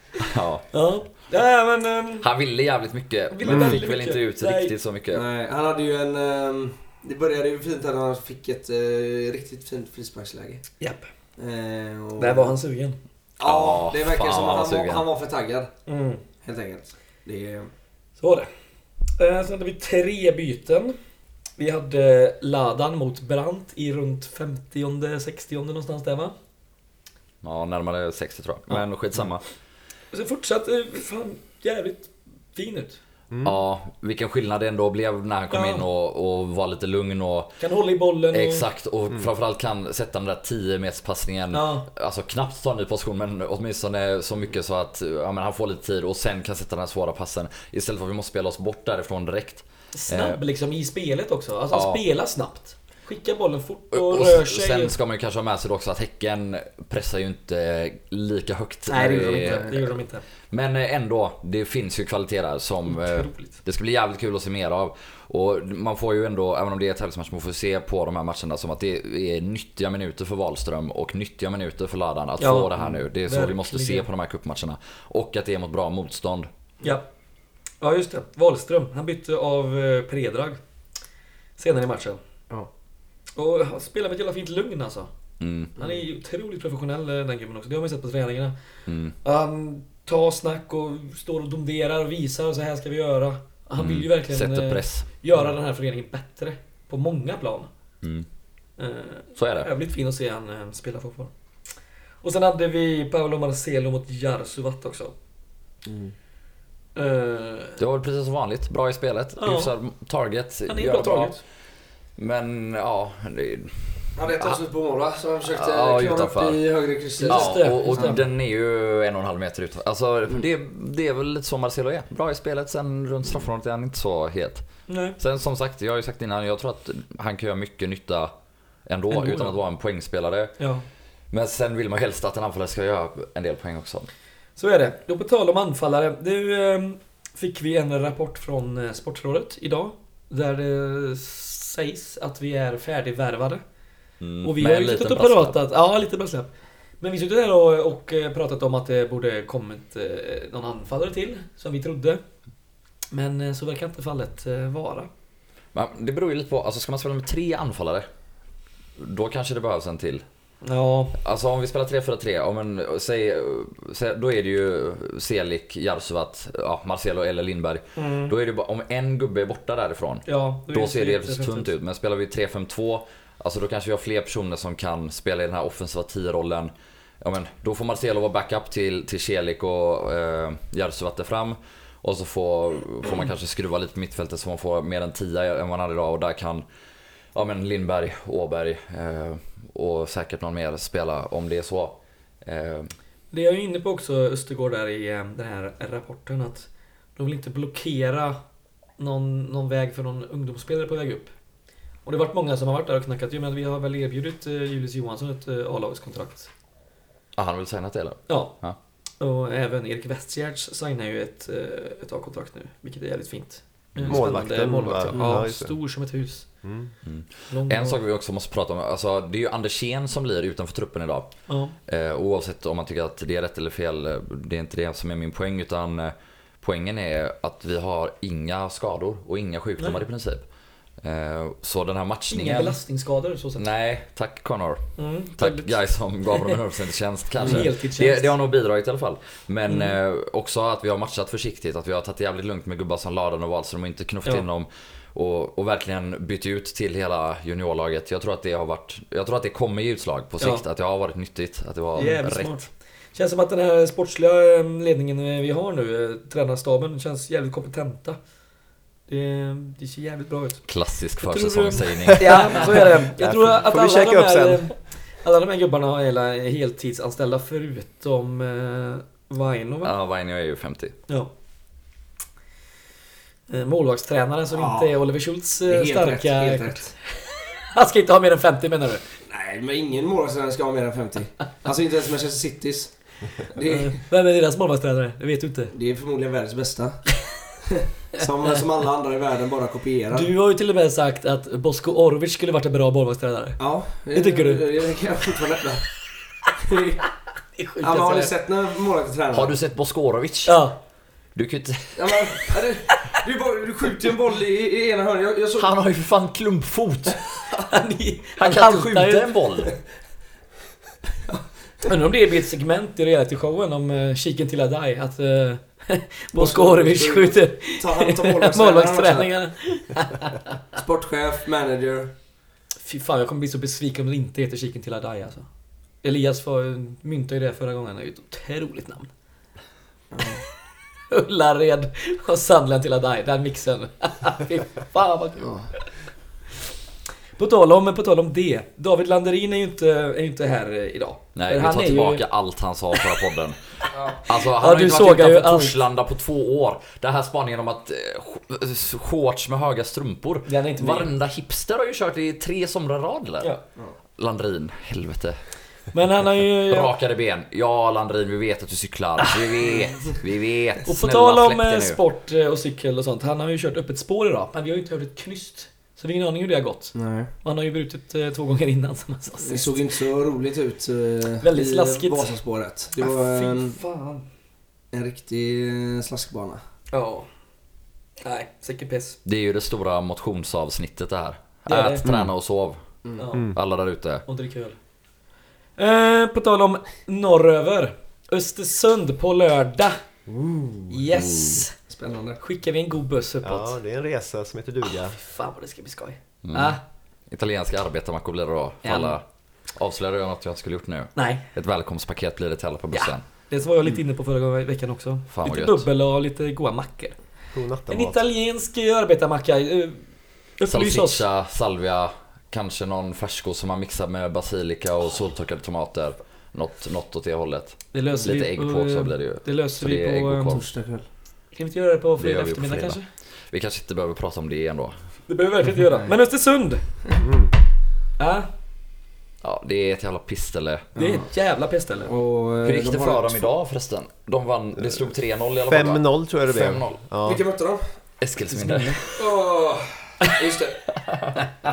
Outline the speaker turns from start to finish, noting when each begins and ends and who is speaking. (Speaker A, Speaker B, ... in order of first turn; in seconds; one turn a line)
Speaker A: 0.3-0.7
Speaker B: 0.7-2.3
Speaker A: 2.2-5.2
Speaker B: 3.3-4.7
Speaker C: 3.5-3.8
Speaker D: 5.1-10.8
Speaker B: 10.8-11.1
Speaker D: 11.4-12.6
Speaker B: 12.2-13.0
Speaker D: 13.4-17.7
Speaker A: 13.4-15.1
Speaker B: 15.9-16.2
Speaker B: 18.2-21.0
Speaker B: 21.6-26.4
Speaker A: 27.4-29.6
Speaker B: 30.1-33.0
Speaker C: 33.3-33.6
Speaker A: 33.4-37.6
Speaker B: 35.5-35.9
Speaker B: 37.6-38.6
Speaker A: 38.3-50.4
Speaker B: 41.5-41.9
Speaker B: 49.9-54.9
Speaker A: 51.7-52.0
Speaker A: 53.9-76.5
Speaker B: 58.9-60.2
Speaker D: 59.4-59.7
Speaker B: 62.9-63.5
Speaker B: 72.4-74.1
Speaker B: 76.8-77.1
Speaker B: 77.8-80.6
Speaker B: 81.6-82.2
Speaker B: 83.3-85.1
Speaker A: 85.4-85.7
Speaker D: 85.8-86.0
Speaker B: 85.8-97.7
Speaker A: 88.9-89.2
Speaker A: 93.8-95.3
Speaker A: 98.0-98.3
Speaker B: 98.8-105.2
Speaker A: 99.4-99.7
Speaker D: 105.8-106.1
Speaker B: 107.0-107.8
Speaker A: 107.8-114.5
Speaker B: 109.4-109.7
Speaker B: 110.7-111.4
Speaker D: 114.2-118.2
Speaker A: 115.5-128.3
Speaker B: 117.2-118.2
Speaker B: 124.9-125.2
Speaker A: 128.9-130.7
Speaker B: 129.1-129.6
Speaker B: 130.6-130.9
Speaker A: 131.3-134.1
Speaker B: 134.6-152.4
Speaker A: 144.2-145.6
Speaker B: 153.1-155.1
Speaker A: 155.7-158.1
Speaker A: 159.0-160.2
Speaker B: 160.6-161.2
Speaker A: 161.2-186.7
Speaker B: 168.0-168.3
Speaker B: 170.3-171.7
Speaker A: 187.3-192.9
Speaker B: 193.3-206.5
Speaker A: 207.3-208.8
Speaker B: 208.3-216.7
Speaker A: 214.0-214.3
Speaker C: 214.0-215.8
Speaker D: 215.1-215.4
Speaker C: 216.6-216.9
Speaker A: 217.0-232.8
Speaker B: 217.5-218.0
Speaker B: 221.5-221.8
Speaker B: 232.3-233.7
Speaker A: 233.6-252.7
Speaker B: 235.0-236.6
Speaker B: 237.4-238.3
Speaker B: 239.7-240.0
Speaker B: 251.9-258.3
Speaker B: 259.1-269.9
Speaker A: 260.7-262.9
Speaker C: 263.2-264.8
Speaker A: 269.8-270.9
Speaker B: 273.5-279.0
Speaker D: 274.5-277.0
Speaker D: 279.3-284.0
Speaker B: 283.7-285.7
Speaker D: 285.7-287.3
Speaker D: 288.1-290.3
Speaker B: 290.1-295.0
Speaker D: 293.6-295.9
Speaker D: 296.6-297.0
Speaker B: 297.5-298.3
Speaker D: 297.8-299.6
Speaker A: 299.3-300.7
Speaker B: 300.5-300.8
Speaker A: 301.4-302.4
Speaker D: 302.0-305.7
Speaker A: 305.6-307.5
Speaker B: 307.6-309.3
Speaker A: 308.4-309.8
Speaker B: 311.9-320.4
Speaker D: 316.3-319.4
Speaker D: 320.8-322.1
Speaker B: 322.8-329.1
Speaker D: 330.1-330.4
Speaker B: 331.1-336.0
Speaker D: 335.4-335.7
Speaker B: 337.4-342.2
Speaker A: 341.4-355.6
Speaker B: 342.9-343.2
Speaker D: 343.9-344.2
Speaker B: 344.3-345.8
Speaker B: 350.5-351.1
Speaker B: 355.9-356.9
Speaker A: 356.7-362.0
Speaker B: 360.9-369.9
Speaker D: 366.9-367.3
Speaker D: 369.4-373.8
Speaker B: 371.4-372.4
Speaker B: 373.0-374.3
Speaker D: 374.9-376.6
Speaker B: 376.9-377.3
Speaker B: 378.2-379.2
Speaker A: 379.2-383.0
Speaker B: 381.7-382.1
Speaker C: 382.0-382.3
Speaker D: 383.0-383.4
Speaker B: 383.2-383.6
Speaker A: 383.5-384.3
Speaker B: 384.2-384.8
Speaker B: 385.8-390.0
Speaker B: 390.9-391.8
Speaker A: 391.1-391.6
Speaker D: 391.9-392.4
Speaker B: 392.4-393.8
Speaker C: 393.4-395.2
Speaker B: 394.8-396.8
Speaker A: 396.4-403.3
Speaker B: 398.8-399.2
Speaker B: 401.2-401.4
Speaker B: 402.9-411.2
Speaker A: 405.3-405.9
Speaker C: 407.5-408.3
Speaker A: 410.7-420.7
Speaker B: 417.9-420.6
Speaker D: 420.5-421.1
Speaker B: 421.5-423.1
Speaker A: 422.2-425.2
Speaker B: 425.3-427.3
Speaker C: 427.2-427.5
Speaker B: 428.2-428.5
Speaker A: 429.4-430.9
Speaker D: 430.9-431.3
Speaker B: 431.0-432.1
Speaker D: 432.0-433.5
Speaker A: 432.6-437.0
Speaker C: 435.7-437.4
Speaker D: 437.2-438.0
Speaker A: 438.2-439.2
Speaker B: 438.5-439.0
Speaker D: 439.1-440.8
Speaker A: 441.1-441.4